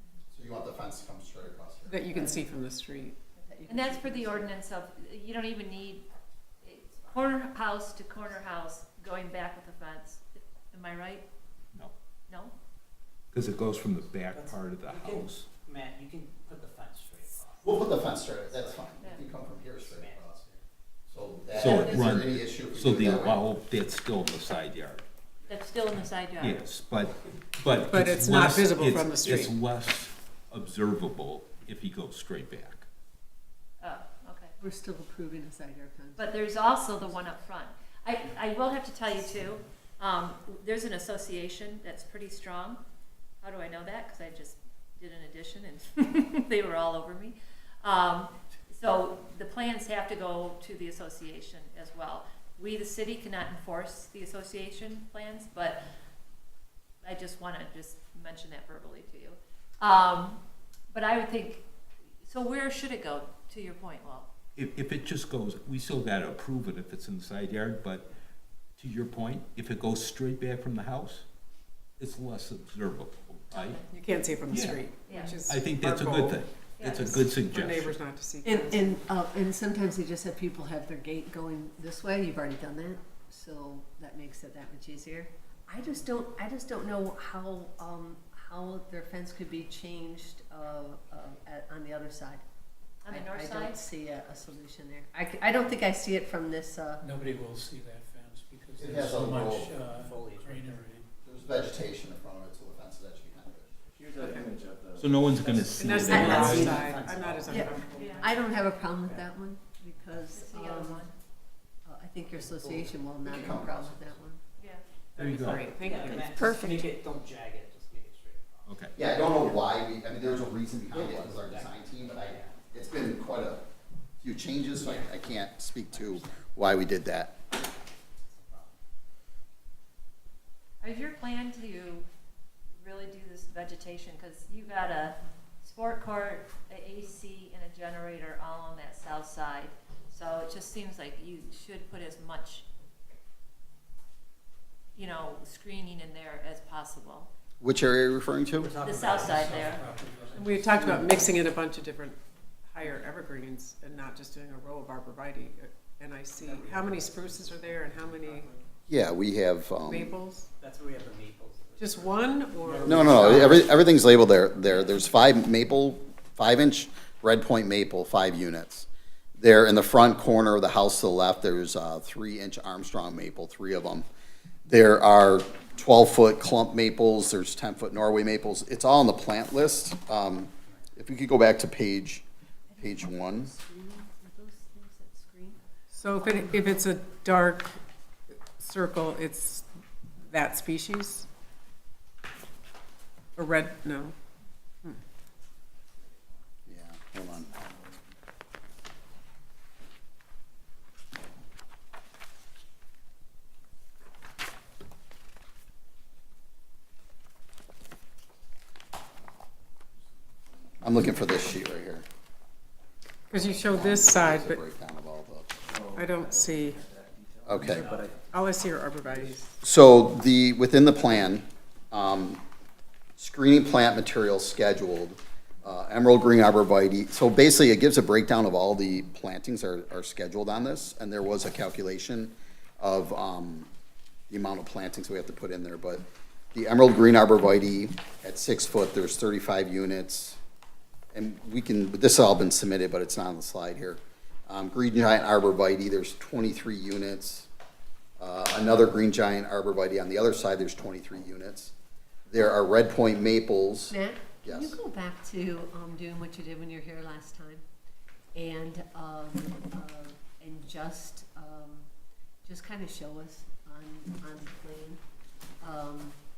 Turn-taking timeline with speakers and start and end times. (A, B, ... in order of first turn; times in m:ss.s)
0:00.3-0:02.4 A
0:01.9-0:03.2 B
0:03.4-0:04.5 C
0:03.7-0:06.0 D
0:06.6-0:11.3 D
0:12.3-0:12.5 D
0:13.3-0:15.5 E
0:14.3-0:17.7 F
0:17.6-0:20.4 A
0:18.3-0:19.0 F
0:19.6-0:20.6 F
0:21.1-0:23.5 A
0:21.6-0:25.0 E
0:21.6-0:22.1 D
0:25.5-0:26.7 D
0:26.4-0:32.8 E
0:27.8-0:29.5 B
0:33.8-0:34.5 D
0:34.6-0:36.3 C
0:36.2-0:42.8 D
0:43.4-0:55.8 D
0:57.0-1:00.4 D
1:00.9-1:01.6 D
1:02.2-1:04.3 D
1:04.6-1:08.1 E
1:08.8-1:11.2 E
1:12.0-1:13.8 E
1:13.5-1:13.8 D
1:13.9-1:16.4 B
1:14.5-1:14.8 E
1:15.1-1:15.4 D
1:15.4-1:18.0 E
1:16.8-1:17.2 D
1:17.2-1:19.0 B
1:18.4-1:32.4 C
1:33.0-1:33.8 D
1:33.1-1:37.0 C
1:37.0-1:41.1 G
1:38.8-1:39.9 A
1:39.9-1:40.8 F
1:41.2-1:43.7 A
1:44.0-1:45.1 H
1:44.2-1:44.5 B
1:45.0-1:46.8 E
1:45.7-1:48.3 B
1:46.0-1:47.5 F
1:46.1-1:46.6 C
1:47.5-1:51.0 C
1:47.9-1:48.3 D
1:50.3-1:51.1 D
1:51.8-1:54.4 C
1:52.4-1:54.1 A
1:54.6-1:54.8 D
1:55.2-1:55.7 E
1:55.2-1:56.6 B
1:55.6-1:59.3 F
1:58.7-1:58.9 E
1:59.0-2:03.6 A
2:00.9-2:02.6 F
2:04.2-2:07.4 A
2:04.8-2:06.4 F
2:08.2-2:08.8 F
2:10.8-2:12.0 D
2:12.8-2:22.7 D
2:25.0-2:27.3 D
2:27.6-2:28.8 A
2:28.7-2:29.4 F
2:28.8-2:29.8 D
2:28.9-2:30.7 G
2:30.4-2:38.5 B
2:36.4-2:37.5 F
2:38.9-2:40.2 A
2:39.9-2:40.5 B
2:40.6-2:43.4 F
2:41.8-2:43.7 B
2:42.8-2:54.0 A
2:54.7-3:02.2 A
3:02.7-3:05.6 C
3:02.8-3:03.5 A
3:05.9-3:07.8 B
3:08.6-3:09.6 B
3:10.3-3:11.3 B
3:13.4-3:14.1 B
3:16.7-3:17.6 A
3:30.8-3:32.0 A
3:33.3-3:34.6 B
3:33.6-3:35.5 A
3:35.7-3:38.2 H
3:35.9-3:36.8 B
3:37.5-3:37.9 A
3:37.7-3:39.6 B
3:39.6-3:42.4 A
3:43.2-3:53.7 A
3:54.3-4:00.4 A
4:01.1-4:07.5 A
4:08.2-4:11.7 A
4:12.3-4:14.8 A
4:13.9-4:17.6 C
4:18.4-4:21.9 C
4:22.5-4:25.0 C
4:25.6-4:26.2 C